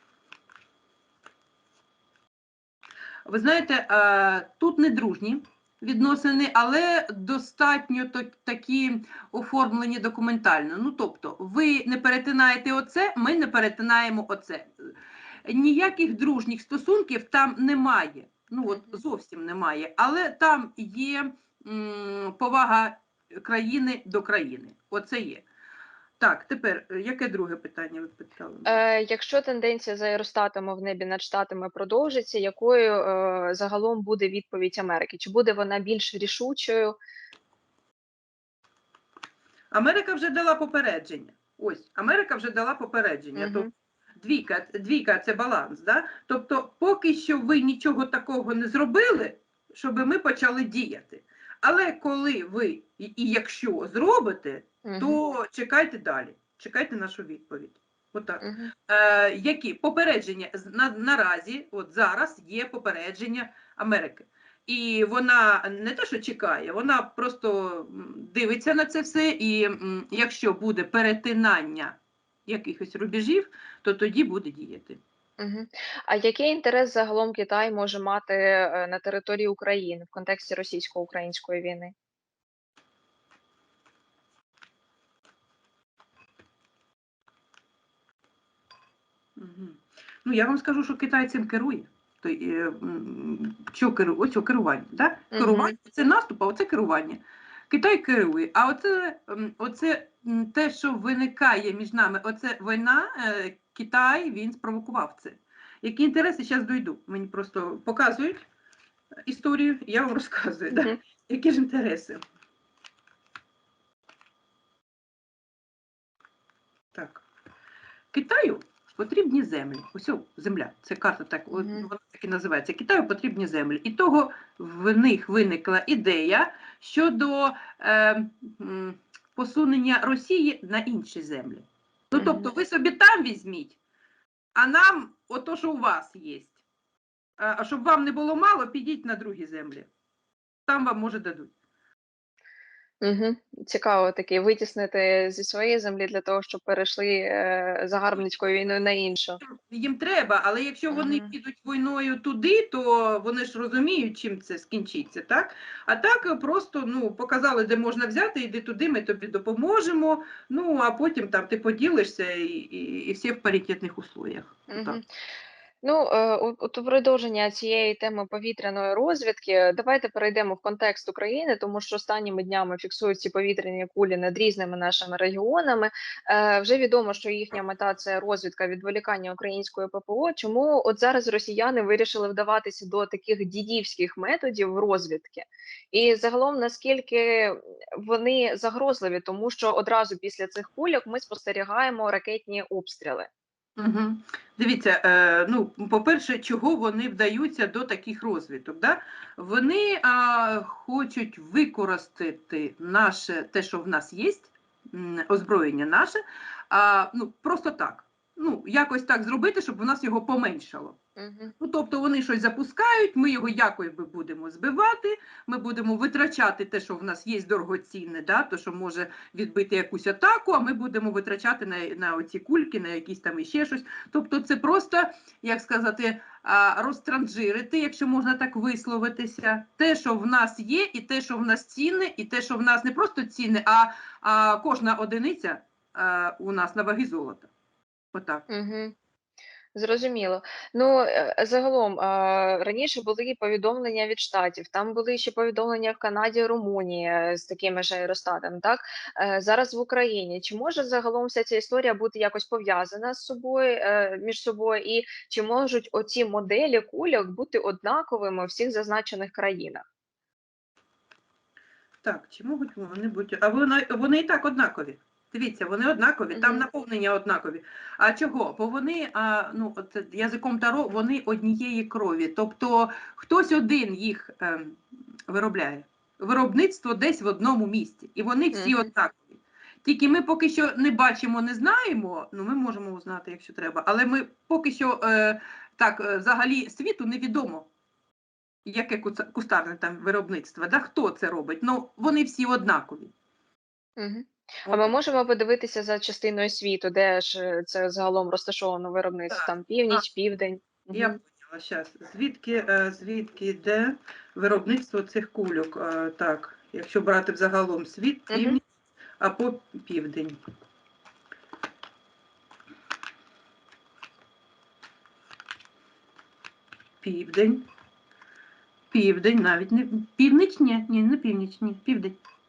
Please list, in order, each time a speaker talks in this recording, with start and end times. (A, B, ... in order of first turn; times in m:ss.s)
0:03.2-0:14.9 A
0:15.4-0:25.4 A
0:18.7-0:19.0 B
0:26.2-0:28.8 A
0:28.6-0:37.0 B
0:39.7-1:15.0 A
0:43.4-0:43.7 B
0:54.8-0:55.2 B
0:58.4-0:58.7 B
1:15.4-1:21.9 B
1:29.4-1:48.4 A
1:35.3-1:35.8 B
1:49.3-1:52.2 A
1:50.7-1:51.0 B
1:56.9-1:57.2 A
1:58.1-2:13.8 A
2:01.5-2:01.9 B
2:12.1-2:12.5 B
2:14.5-2:16.6 A
2:17.4-2:19.9 A
2:20.7-2:21.5 A
2:23.0-2:29.4 B
2:29.4-2:45.0 A
2:30.9-2:31.3 B
2:44.7-2:45.1 B
2:45.8-3:13.3 B
3:13.8-3:31.0 A
3:31.2-3:31.5 B
3:31.6-3:57.5 A
3:58.1-3:58.4 A
3:58.5-3:58.9 B
3:59.7-4:19.8 B
4:22.0-4:47.7 A
4:26.3-4:26.6 B
4:38.5-4:38.9 B
4:48.6-4:53.1 A
4:54.0-5:01.2 B
4:54.7-4:54.9 A
4:59.3-5:00.0 A
5:00.9-5:08.6 A
5:08.3-5:08.6 B
5:09.2-5:10.4 A
5:17.0-5:17.6 A
5:18.9-5:22.2 A